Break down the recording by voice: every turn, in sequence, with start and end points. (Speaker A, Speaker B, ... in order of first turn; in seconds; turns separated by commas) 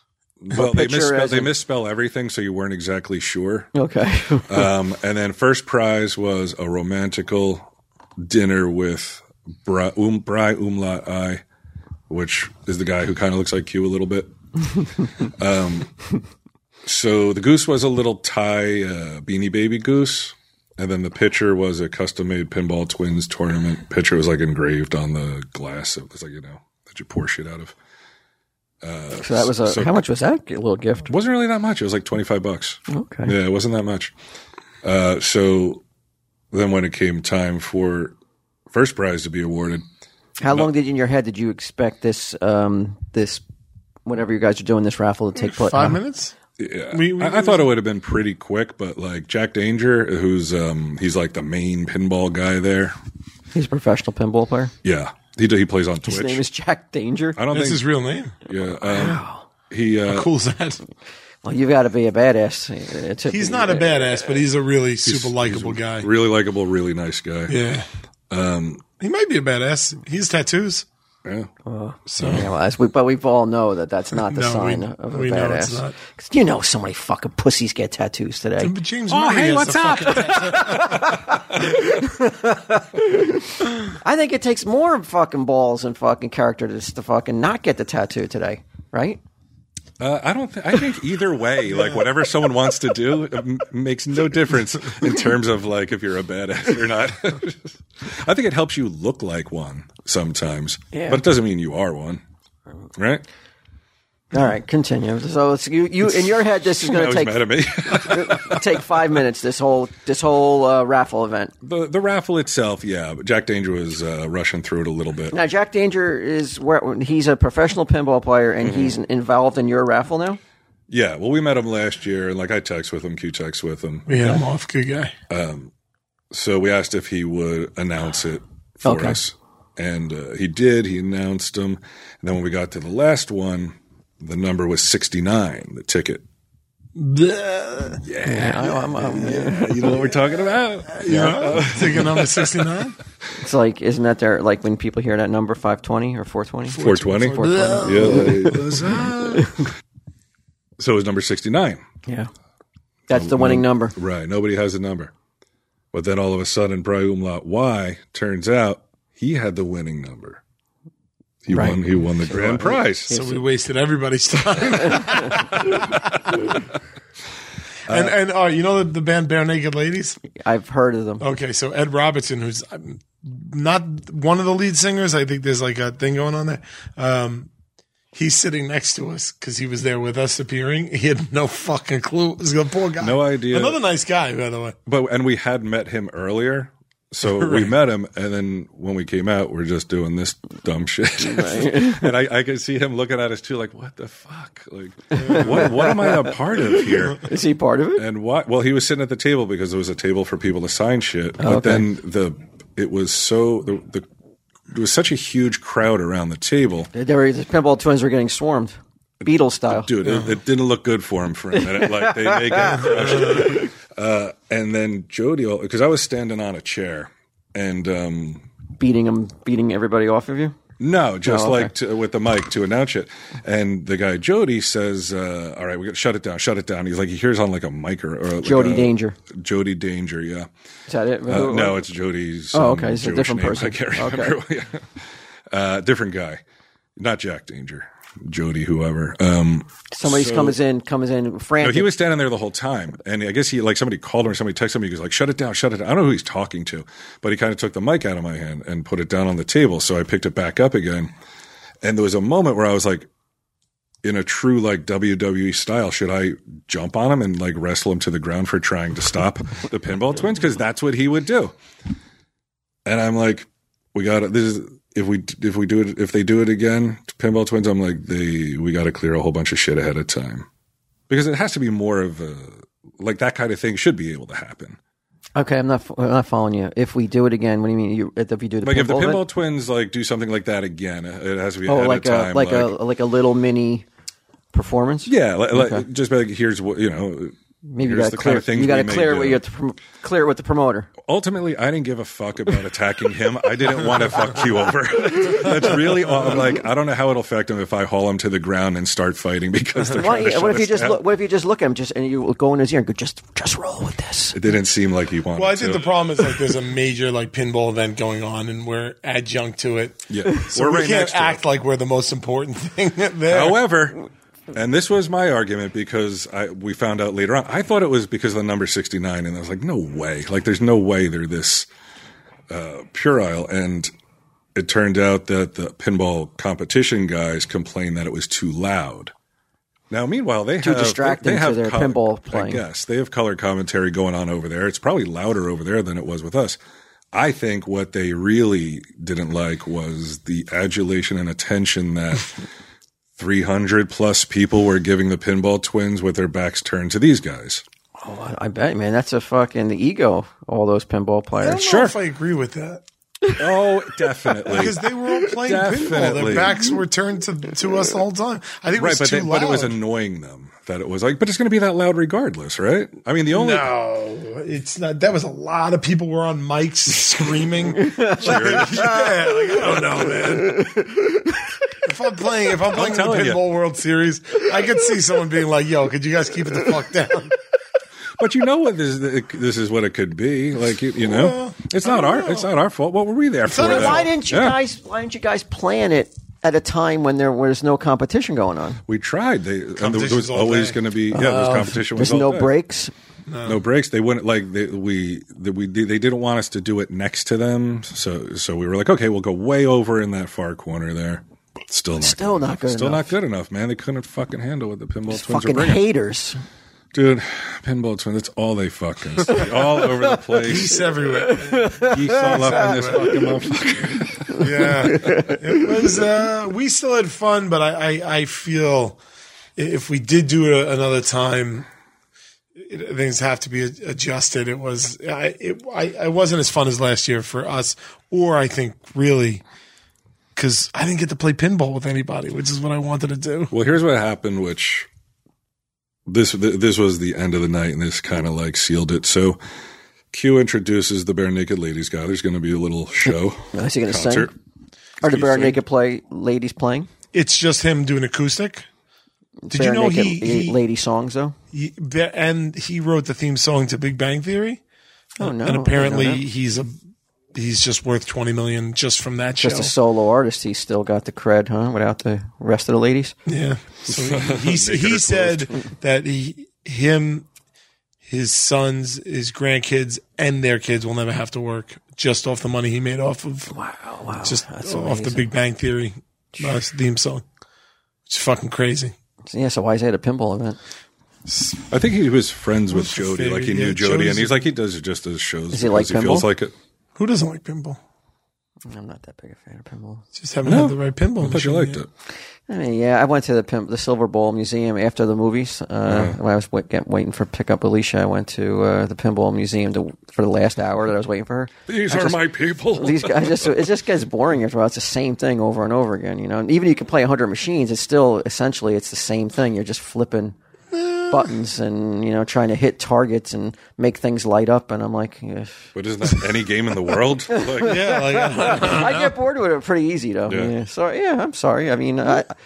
Speaker A: 0.4-3.7, Speaker B: 0.5-1.5, Speaker B: 3.7-4.7, Speaker A: 4.5-7.7, Speaker A: 8.2-11.4, Speaker A: 12.1-14.3, Speaker A: 15.2-15.9, Speaker A: 16.8-27.8, Speaker A: 28.8-29.9, Speaker B: 29.2-31.1, Speaker A: 31.1-34.1, Speaker B: 32.9-33.3, Speaker A: 34.8-35.8, Speaker A: 36.5-38.2, Speaker A: 38.7-39.8, Speaker B: 40.4-43.4, Speaker B: 44.1-46.0, Speaker C: 45.4-46.4, Speaker A: 46.6-53.0, Speaker C: 46.9-47.7, Speaker B: 53.5-54.7, Speaker A: 54.8-56.4, Speaker B: 56.0-57.4, Speaker A: 57.4-57.9, Speaker C: 57.5-58.4, Speaker A: 58.5-60.3, Speaker B: 58.9-59.4, Speaker C: 60.0-60.8, Speaker B: 61.4-64.3, Speaker C: 63.3-66.1, Speaker A: 65.0-67.6, Speaker C: 67.5-67.9, Speaker A: 68.3-68.8, Speaker C: 69.0-70.9, Speaker A: 71.2-71.5, Speaker B: 71.7-78.7, Speaker C: 72.1-72.5, Speaker C: 74.2-76.0, Speaker C: 78.6-81.2, Speaker A: 79.1-81.8, Speaker B: 80.1-89.2, Speaker A: 90.0-102.2, Speaker B: 100.9-101.2, Speaker A: 103.0-103.2, Speaker B: 104.3-111.5, Speaker A: 106.8-108.8, Speaker A: 111.6-115.4, Speaker B: 115.3-120.4, Speaker A: 118.7-118.9, Speaker A: 120.9-124.4, Speaker C: 124.1-125.1, Speaker A: 125.3-125.7, Speaker A: 126.3-136.2, Speaker B: 128.8-129.2, Speaker C: 137.0-138.0, Speaker A: 138.0-142.7, Speaker B: 138.2-140.1, Speaker C: 140.9-143.0, Speaker B: 143.4-148.6, Speaker C: 146.7-149.4, Speaker A: 146.8-149.5, Speaker B: 149.3-149.7, Speaker A: 150.8-151.8, Speaker B: 153.1-153.9, Speaker A: 153.1-155.1, Speaker A: 155.9-160.4, Speaker A: 161.4-163.1, Speaker B: 161.5-163.4, Speaker C: 163.1-166.3, Speaker A: 167.9-168.1, Speaker C: 167.9-170.2, Speaker B: 170.3-171.3, Speaker C: 171.2-177.5, Speaker C: 178.1-184.8, Speaker A: 183.0-183.8, Speaker A: 184.9-197.2, Speaker C: 187.3-187.7, Speaker B: 191.2-192.1, Speaker B: 195.1-198.1, Speaker C: 195.2-195.7, Speaker A: 198.0-204.1, Speaker B: 201.4-201.9, Speaker A: 204.7-206.9, Speaker B: 206.9-209.9, Speaker A: 209.2-218.4, Speaker C: 210.0-210.3, Speaker B: 211.6-213.7, Speaker C: 212.8-213.5, Speaker B: 218.8-220.6, Speaker A: 220.8-230.5, Speaker B: 221.2-221.7, Speaker B: 228.4-229.2, Speaker B: 230.9-231.8, Speaker A: 231.3-236.4, Speaker B: 232.5-234.4, Speaker A: 237.0-240.6, Speaker B: 239.9-241.9, Speaker A: 241.6-251.1, Speaker A: 251.8-253.1, Speaker A: 254.0-261.5, Speaker A: 262.9-270.5, Speaker A: 271.1-274.8, Speaker B: 275.4-279.2, Speaker A: 278.6-282.8, Speaker B: 281.7-283.9, Speaker B: 284.5-285.8, Speaker A: 285.1-289.4, Speaker B: 287.6-290.9, Speaker A: 291.0-301.0, Speaker B: 299.8-304.4, Speaker A: 304.3-306.0, Speaker C: 305.4-313.6, Speaker A: 310.1-311.4, Speaker A: 313.3-314.0, Speaker A: 314.5-321.7, Speaker A: 322.5-323.9, Speaker A: 324.6-329.1, Speaker A: 329.9-336.6, Speaker B: 330.6-332.6, Speaker A: 337.1-342.4, Speaker A: 343.2-347.6, Speaker B: 348.0-351.6, Speaker C: 351.4-352.8, Speaker A: 351.6-352.0, Speaker A: 353.4-354.9, Speaker C: 354.5-359.8, Speaker A: 355.4-356.6, Speaker A: 358.8-363.7, Speaker C: 363.3-370.7, Speaker B: 367.8-368.9, Speaker A: 368.2-369.1, Speaker B: 370.0-371.5, Speaker C: 371.8-377.4, Speaker A: 372.7-373.4, Speaker A: 378.2-384.6, Speaker C: 381.0-382.5, Speaker C: 383.5-384.1, Speaker B: 383.6-388.8, Speaker A: 388.9-392.5, Speaker C: 389.8-390.8, Speaker B: 391.1-392.9, Speaker C: 393.3-393.6, Speaker A: 393.4-405.8, Speaker B: 402.0-403.1, Speaker B: 405.1-406.4, Speaker A: 406.9-410.8, Speaker B: 409.3-410.5, Speaker C: 410.4-413.2, Speaker B: 411.0-416.0, Speaker A: 411.8-415.1, Speaker C: 414.4-419.0, Speaker C: 419.6-421.7, Speaker C: 422.6-429.4, Speaker C: 430.4-433.5, Speaker A: 433.5-434.9, Speaker A: 436.1-439.4, Speaker A: 440.1-444.3, Speaker B: 443.5-444.3, Speaker B: 445.0-446.9, Speaker A: 445.1-445.6, Speaker C: 447.1-448.7, Speaker B: 449.5-451.4, Speaker C: 449.5-450.6, Speaker C: 451.5-454.6, Speaker B: 455.2-456.2, Speaker C: 455.2-456.7, Speaker C: 457.3-459.7, Speaker B: 459.4-463.1, Speaker C: 463.3-467.3, Speaker A: 463.9-465.5, Speaker C: 468.1-473.5, Speaker B: 473.5-475.3, Speaker C: 474.2-477.2, Speaker C: 478.1-478.9, Speaker B: 479.3-480.6, Speaker C: 481.3-481.6, Speaker A: 481.7-486.6, Speaker C: 482.7-484.4, Speaker B: 485.5-486.3, Speaker C: 487.0-487.8, Speaker B: 488.7-490.1, Speaker C: 490.2-491.8, Speaker A: 490.4-491.9, Speaker B: 492.5-502.2, Speaker A: 495.9-496.2, Speaker A: 501.7-503.6, Speaker B: 502.7-510.4, Speaker C: 510.7-511.3, Speaker B: 511.1-515.7, Speaker A: 515.8-518.0, Speaker B: 517.3-522.3, Speaker C: 517.6-519.1, Speaker A: 520.3-520.5